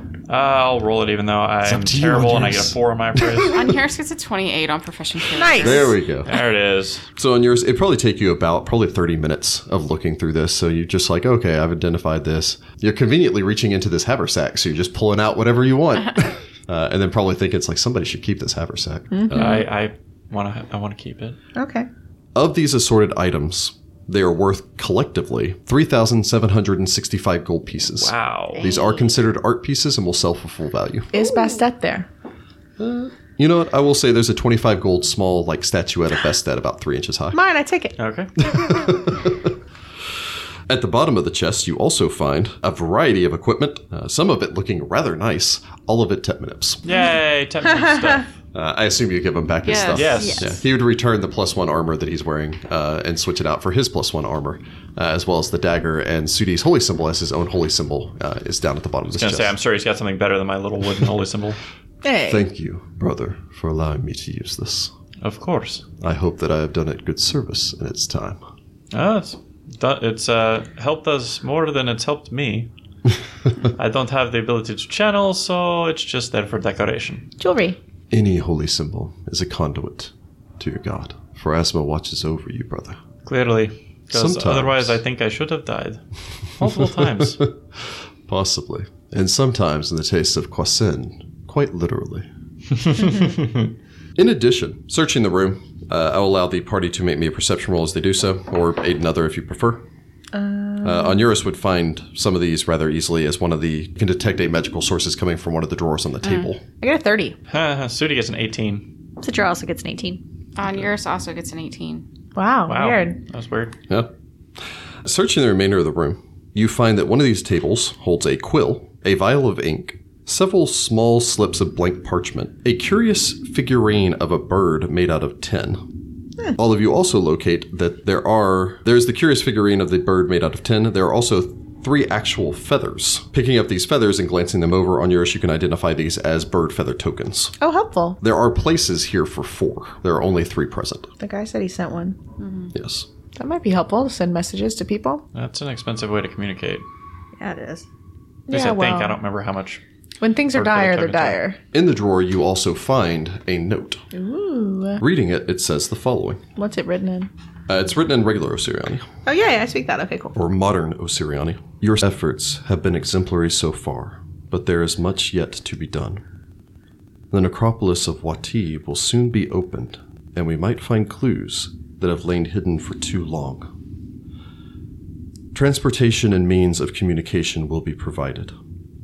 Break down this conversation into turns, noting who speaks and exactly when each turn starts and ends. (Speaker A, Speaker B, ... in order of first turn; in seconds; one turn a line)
Speaker A: 0.3-3.6
Speaker B: 1.6-3.8
Speaker C: 3.5-5.9
Speaker D: 5.3-5.9
Speaker B: 5.6-6.3
Speaker A: 6.2-7.0
Speaker B: 7.2-19.7
Speaker D: 19.1-19.6
Speaker A: 19.3-21.4
Speaker D: 21.6-21.9
Speaker B: 22.4-31.2
Speaker A: 28.0-28.6
Speaker E: 28.6-29.0
Speaker D: 31.1-32.1
Speaker B: 32.8-37.4
Speaker D: 37.3-38.0
Speaker A: 38.0-38.3
Speaker B: 38.4-39.5
Speaker B: 40.7-46.8
Speaker A: 46.8-48.3
Speaker B: 48.5-59.6
Speaker C: 49.6-50.3
Speaker A: 49.9-50.5
Speaker E: 50.2-50.6
Speaker A: 59.1-61.6
Speaker D: 62.0-62.4
Speaker B: 62.3-64.9
Speaker A: 65.2-65.8
Speaker B: 66.0-68.4
Speaker A: 68.9-72.7
Speaker A: 73.8-77.3
Speaker D: 77.4-77.8
Speaker B: 78.1-83.0
Speaker A: 83.2-86.0
Speaker B: 84.1-85.0
Speaker A: 86.6-87.4
Speaker B: 87.2-92.3
Speaker A: 92.8-93.7
Speaker B: 94.2-99.8
Speaker D: 100.3-101.2
Speaker B: 100.8-106.6
Speaker C: 106.2-106.5
Speaker D: 106.8-107.4
Speaker A: 107.5-108.9
Speaker E: 109.2-110.2
Speaker C: 110.6-112.0
Speaker D: 112.3-113.2
Speaker A: 112.7-113.8
Speaker B: 115.0-125.8
Speaker B: 126.5-137.6
Speaker D: 137.6-138.2
Speaker B: 138.2-141.1
Speaker D: 141.2-142.2
Speaker C: 142.4-142.7
Speaker B: 142.7-143.1
Speaker D: 143.4-145.2
Speaker A: 145.3-146.8
Speaker E: 147.4-147.8
Speaker D: 148.5-149.2
Speaker A: 148.5-149.8
Speaker D: 150.2-151.6
Speaker A: 150.5-151.4
Speaker B: 151.7-154.0
Speaker D: 154.1-155.0
Speaker B: 155.0-156.4
Speaker D: 156.6-157.3
Speaker B: 157.7-159.1
Speaker D: 159.3-160.3
Speaker B: 160.3-166.2
Speaker B: 167.3-173.7
Speaker B: 175.5-178.6